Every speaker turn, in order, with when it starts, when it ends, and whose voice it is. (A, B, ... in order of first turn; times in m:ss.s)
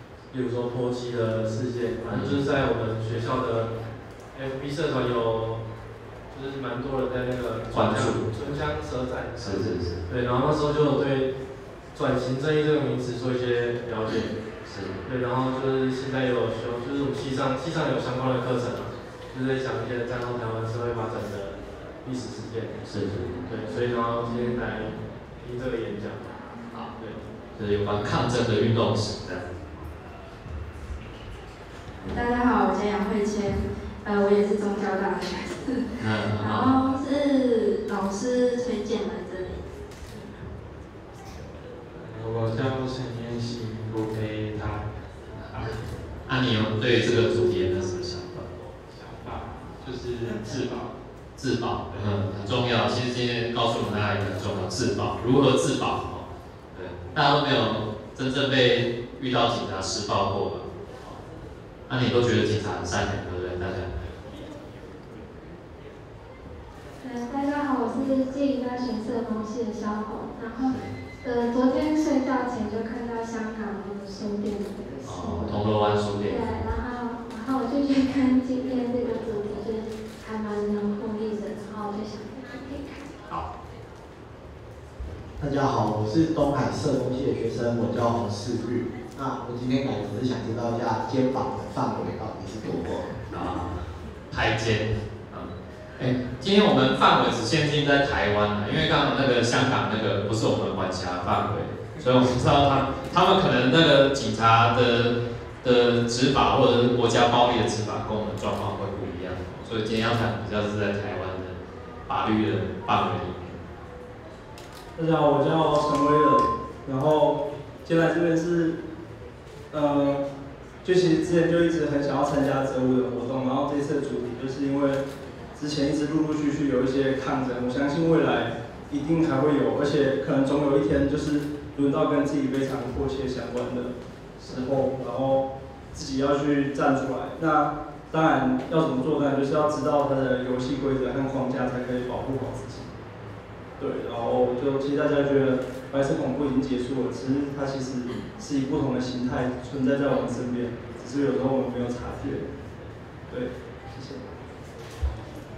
0:00.3-0:03.7 A
0:02.1-0:02.4 B
0:04.3-0:05.6 A
0:06.3-0:11.3 A
0:07.7-0:08.2 B
0:09.4-0:10.0 B
0:11.9-0:14.3 A
0:14.1-0:15.0 B
0:15.0-0:26.4 A
0:22.9-0:23.4 B
0:27.6-0:29.4 B
0:32.1-0:35.5 C
0:36.0-0:36.8 B
0:36.5-0:39.5 C
0:42.3-0:43.7 A
0:46.3-0:48.5 B
0:51.4-1:01.2 B
1:01.9-1:03.9 B
1:07.0-1:15.6 C
1:15.0-1:16.5 B
1:16.2-1:22.9 C
1:25.4-1:33.0 D
1:33.3-1:53.6 B
1:55.0-1:58.8 E
1:59.7-2:00.2 E
2:00.8-2:05.0 E
2:05.6-2:22.9 E
2:23.8-2:32.4 E
2:33.3-2:34.3 E